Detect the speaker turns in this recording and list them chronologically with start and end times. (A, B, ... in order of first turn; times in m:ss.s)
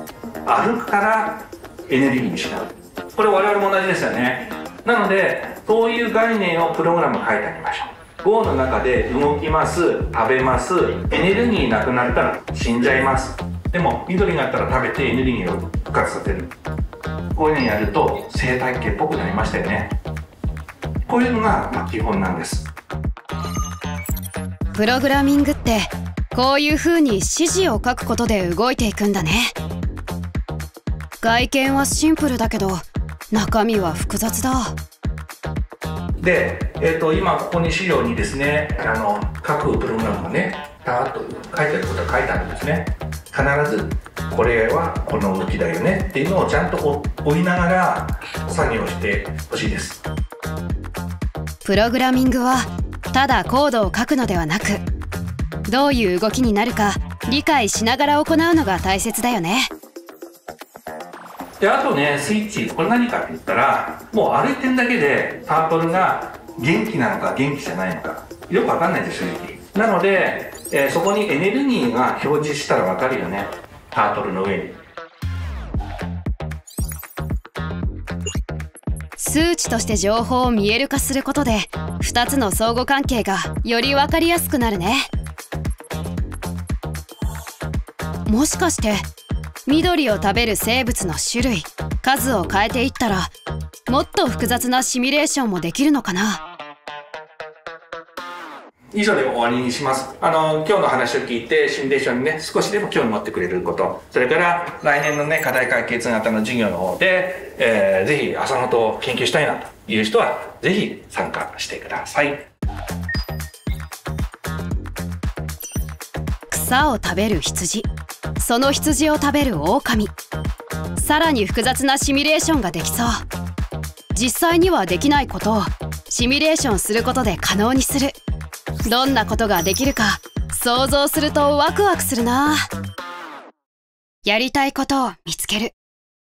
0:00.4-0:16.5 A
0:17.4-0:20.0 A
0:21.1-0:22.7 A
0:24.7-0:29.6 B
0:31.2-0:34.8 B
0:36.2-0:50.0 A
0:51.6-0:54.8 B
0:55.7-0:59.7 B
1:01.6-1:14.8 A
1:19.2-1:25.1 B
1:28.3-1:29.0 B
1:29.7-1:33.3 B
1:33.9-1:36.4 B
1:38.9-1:52.5 A
1:56.5-2:00.1 B
2:01.0-2:03.2 B
2:04.1-2:08.2 B
2:08.8-2:12.7 B
2:14.2-2:15.8 B